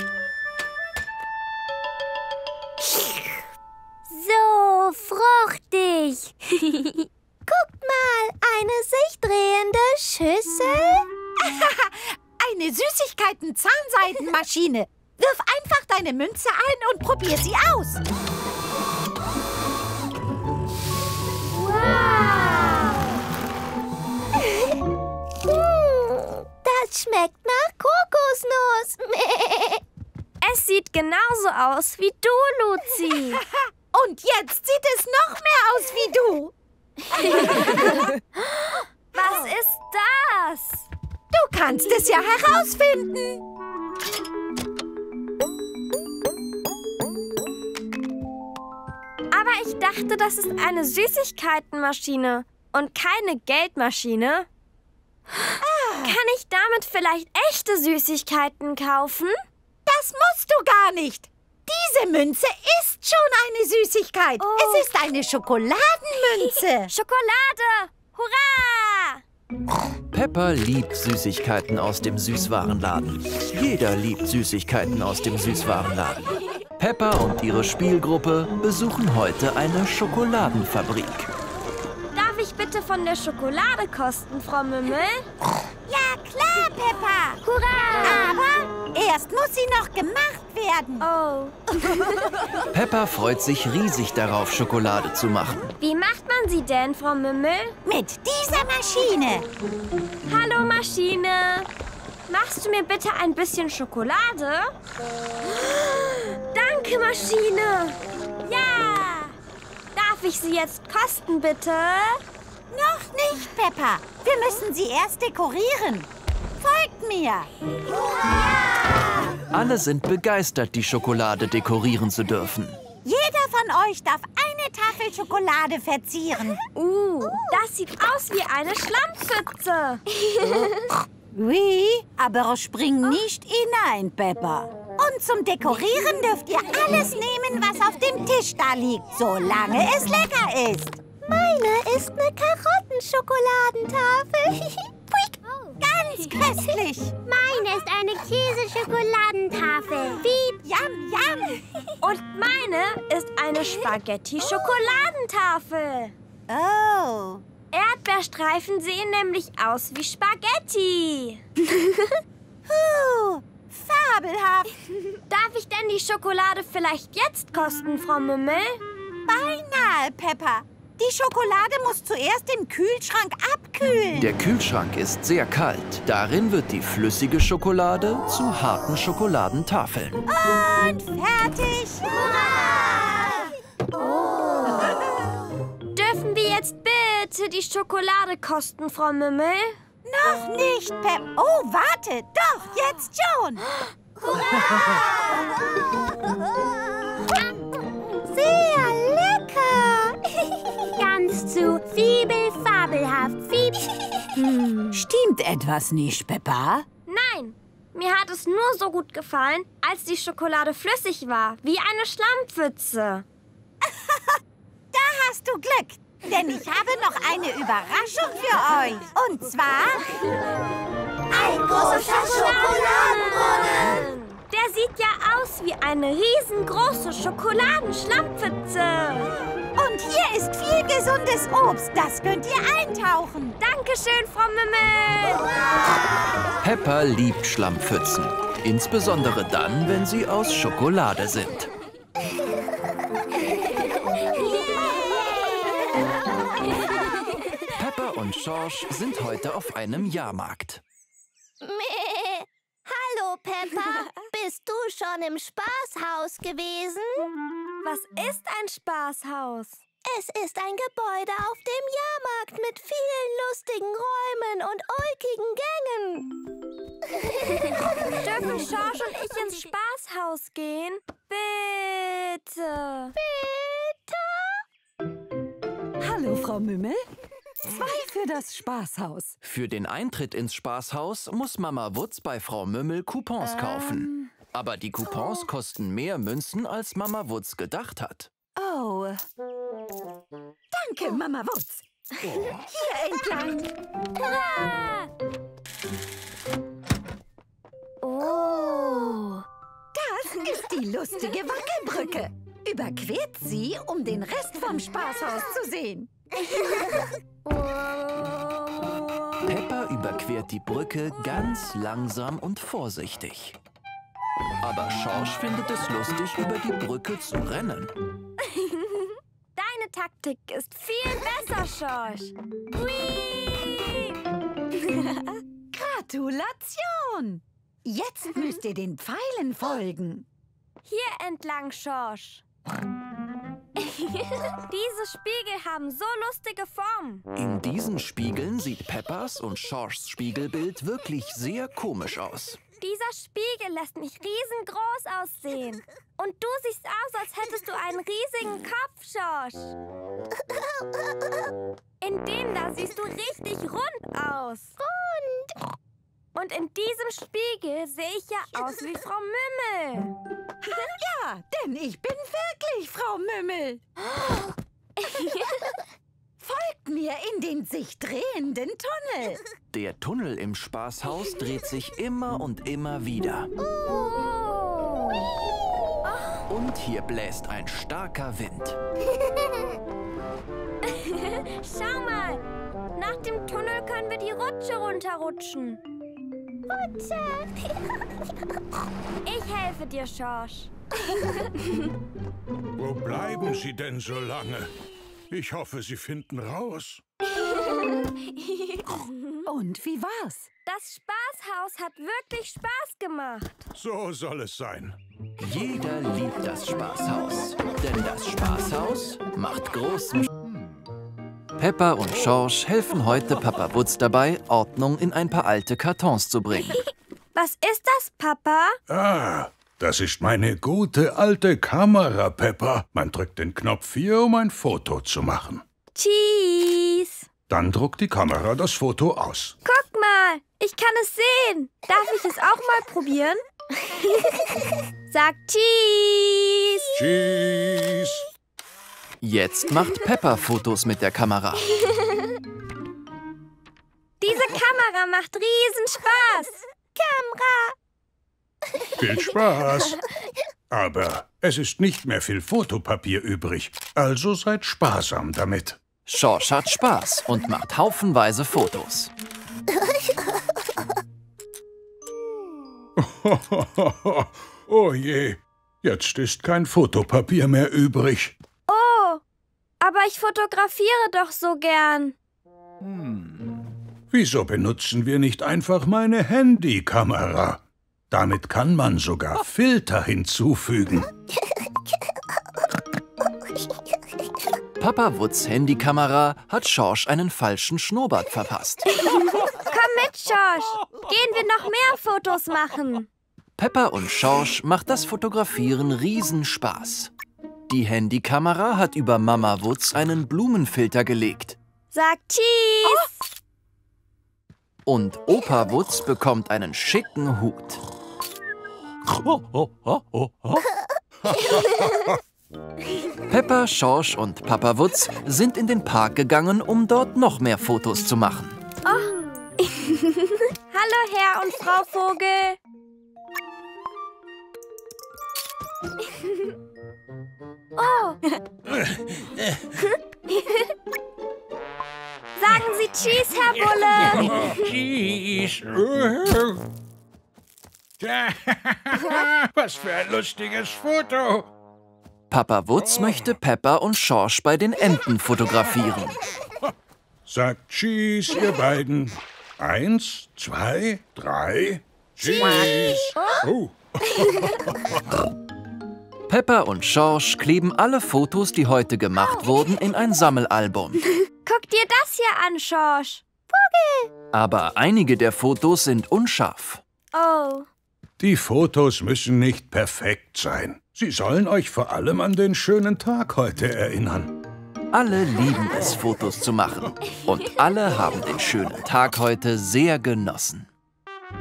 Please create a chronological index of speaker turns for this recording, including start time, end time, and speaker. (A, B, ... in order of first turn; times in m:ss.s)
0:05.6-0:06.3 A
0:07.5-0:11.1 B
0:11.4-0:18.0 C
0:21.5-0:22.6 B
0:25.6-0:29.8 B
0:30.4-0:33.4 D
0:33.3-0:36.5 C
0:37.1-0:38.0 C
0:37.2-0:38.0 D
0:38.7-0:40.9 D
0:41.3-0:43.4 C
0:49.3-0:54.5 D
0:55.6-0:56.2 C
0:56.0-0:59.4 D
0:59.8-1:06.9 C
1:04.4-1:04.9 D
1:06.9-1:09.2 D
1:10.1-1:21.3 E
1:22.1-1:25.2 D
1:25.9-1:27.3 B
1:26.0-1:27.4 C
1:27.4-1:28.3 D
1:28.0-1:31.1 C
1:28.1-1:28.4 B
1:31.0-1:32.0 D
1:31.8-1:32.5 C
1:32.7-1:35.7 E
1:35.8-1:37.7 D
1:37.8-1:39.5 C
1:40.2-1:41.7 D
1:42.3-1:44.7 D
1:45.8-1:49.3 D
1:49.9-1:52.2 D
1:52.7-1:57.5 C
1:58.5-1:59.1 C
1:59.5-2:02.8 E
2:03.0-2:06.6 C
2:06.7-2:10.2 D
2:10.4-2:21.0 C
2:21.3-2:24.9 B
2:25.8-2:27.2 C
2:27.2-2:30.6 A
2:30.6-2:31.6 C
2:32.0-2:36.1 D
2:36.5-2:37.4 C
2:37.7-2:41.9 D
2:42.6-2:44.8 C
2:45.3-2:48.8 D
2:49.3-2:54.3 C
2:54.2-3:00.2 E
3:00.3-3:03.5 C
3:02.3-3:03.0 B
3:04.6-3:05.3 C
3:05.9-3:09.8 D
3:10.0-3:13.7 C
3:14.3-3:15.4 C
3:14.9-3:15.3 B
3:18.1-3:20.2 B
3:20.9-3:23.9 A
3:24.4-3:26.8 C
3:27.1-3:33.2 D
3:33.9-3:34.3 C
3:34.9-3:40.3 C
3:41.3-3:44.1 B
3:41.3-3:43.2 C
3:41.6-3:49.3 D
3:49.7-3:53.6 C
3:53.6-3:55.5 D
3:56.6-4:01.7 E
4:04.9-4:05.7 B
4:07.7-4:10.8 E
4:11.6-4:17.3 B
4:17.8-4:19.8 D
4:20.0-4:26.3 B
4:28.1-4:33.2 D
4:36.0-4:37.1 C
4:37.6-4:39.4 C
4:39.4-4:48.3 E
4:43.4-4:44.3 C
4:48.6-4:49.2 C
4:50.7-4:53.7 C
4:54.2-4:55.1 D
4:58.0-4:59.4 D
4:59.9-5:06.1 C
5:07.5-5:08.7 D
5:09.4-5:13.6 E
5:14.6-5:17.9 E
5:18.5-5:24.2 D
5:24.9-5:25.4 D
5:25.7-5:30.3 C
5:30.8-5:32.4 D
5:34.5-5:37.2 D
5:37.3-5:42.6 E
5:42.8-5:49.7 D
5:52.0-5:54.8 D
5:54.9-5:55.4 B
5:56.3-6:00.1 D
6:00.7-6:03.8 C
6:05.1-6:05.4 D
6:06.4-6:09.4 C
6:09.7-6:13.5 E
6:13.7-6:14.2 B
6:14.2-6:15.3 D
6:16.5-6:18.8 E
6:20.8-6:25.8 D
6:26.7-6:27.5 B
6:29.2-6:31.4 D
6:32.8-6:34.7 F
6:35.3-6:37.0 F
6:37.4-6:37.9 D
6:38.8-6:39.4 D
6:39.4-6:40.5 C
6:40.6-6:43.6 D
6:43.8-6:44.9 F
6:45.4-6:50.3 E
6:51.6-6:56.8 E
6:57.3-6:58.8 D
6:58.9-7:05.6 F
7:05.9-7:07.2 D
7:07.5-7:09.6 F
7:09.6-7:13.4 D
7:15.1-7:16.9 D
7:16.9-7:18.2 F
7:19.2-7:21.9 E
7:24.2-7:26.6 D
7:26.9-7:27.7 B
7:29.0-7:30.0 F
7:30.7-7:35.8 F
7:36.0-7:39.1 E
7:43.0-7:48.4 F
7:48.7-7:49.2 D
7:49.8-7:52.2 D
7:52.9-7:53.4 F
7:54.1-8:01.1 F
8:04.8-8:09.0 E
8:09.0-8:13.1 D
8:13.6-8:17.1 E
8:17.7-8:21.6 E
8:21.9-8:23.1 D
8:22.8-8:23.1 C
8:24.8-8:27.8 E
8:29.1-8:30.6 F
8:31.2-8:32.2 F
8:33.3-8:38.6 E
8:38.8-8:39.1 D
8:40.7-8:42.6 D
8:47.8-8:48.2 D
8:48.7-8:49.7 F
8:52.4-8:54.5 D
8:53.6-8:56.6 F
8:58.0-9:01.5 F
9:02.3-9:06.2 E
9:02.9-9:03.3 F
9:07.2-9:15.0 F
9:13.2-9:13.5 D
9:16.3-9:21.1 E
9:21.4-9:23.2 D
9:23.5-9:24.0 B
9:24.3-9:26.8 E
9:27.1-9:27.7 D
9:28.2-9:34.3 F
9:34.9-9:40.7 E